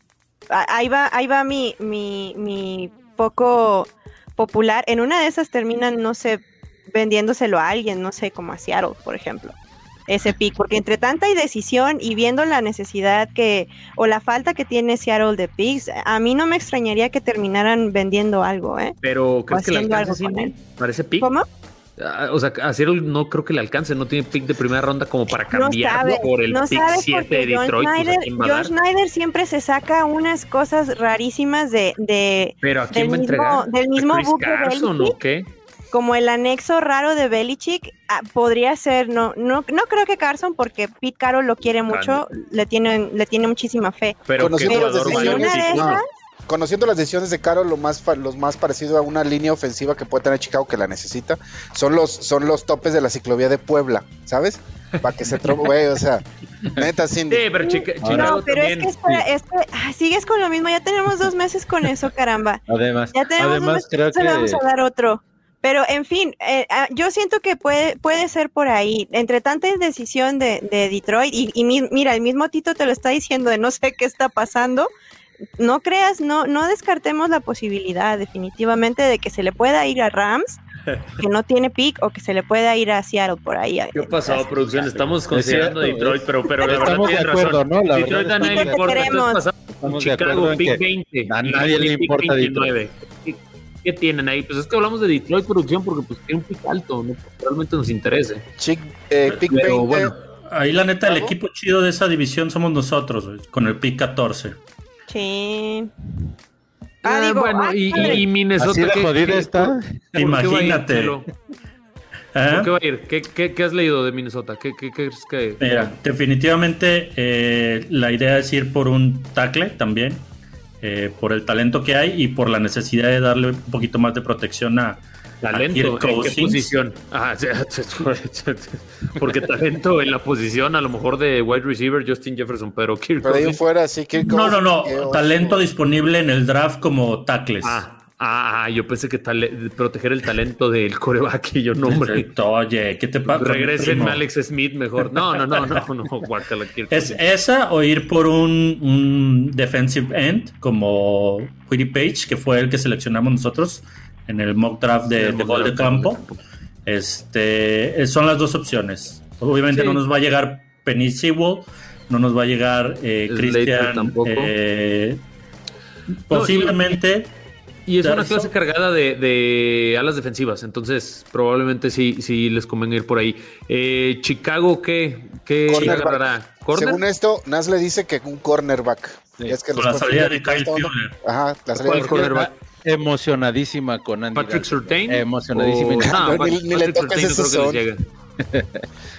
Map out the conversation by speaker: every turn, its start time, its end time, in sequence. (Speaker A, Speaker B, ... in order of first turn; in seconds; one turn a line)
Speaker A: 0.5-9.6
Speaker A: 10.1-19.0
Speaker B: 19.0-21.3
Speaker A: 19.5-20.5
Speaker A: 21.2-21.5
Speaker B: 22.0-28.7
Speaker A: 25.5-35.2
Speaker B: 32.6-35.5
Speaker A: 35.9-46.1
Speaker B: 41.9-42.2
Speaker B: 44.3-46.0
Speaker C: 44.4-57.5
Speaker B: 55.3-55.7
Speaker B: 57.3-59.2
Speaker A: 57.6-62.6
Speaker D: 58.0-58.4
Speaker D: 62.7-64.6
Speaker A: 63.1-74.9
Speaker A: 75.6-80.6
Speaker A: 81.2-84.5
Speaker B: 83.9-98.5
Speaker D: 85.3-89.2
Speaker A: 88.4-89.4
Speaker D: 89.7-92.7
Speaker C: 98.6-100.1
Speaker E: 99.4-104.6
Speaker B: 99.5-100.1
Speaker C: 101.0-101.3
Speaker A: 105.1-105.9
Speaker A: 107.0-108.2
Speaker B: 107.0-111.3
Speaker D: 108.0-110.2
Speaker E: 110.2-111.2
Speaker E: 112.3-112.7
Speaker B: 112.5-115.9
Speaker E: 115.6-120.3
Speaker E: 120.8-126.8
Speaker B: 125.4-133.6
Speaker C: 133.2-135.6
Speaker E: 134.2-137.8
Speaker B: 137.6-142.3
Speaker E: 141.8-144.2
Speaker B: 143.2-147.2
Speaker E: 146.9-156.2
Speaker B: 155.1-156.4
Speaker E: 156.9-165.2
Speaker B: 159.7-160.0
Speaker B: 163.3-164.5
Speaker E: 166.3-167.3
Speaker B: 166.3-166.8
Speaker B: 167.9-177.0
Speaker E: 168.0-168.5
Speaker C: 175.7-182.3
Speaker E: 175.7-176.0
Speaker E: 179.8-181.1
Speaker B: 181.8-182.5
Speaker D: 182.1-186.5
Speaker B: 184.3-188.0
Speaker C: 186.0-187.8
Speaker D: 188.4-188.9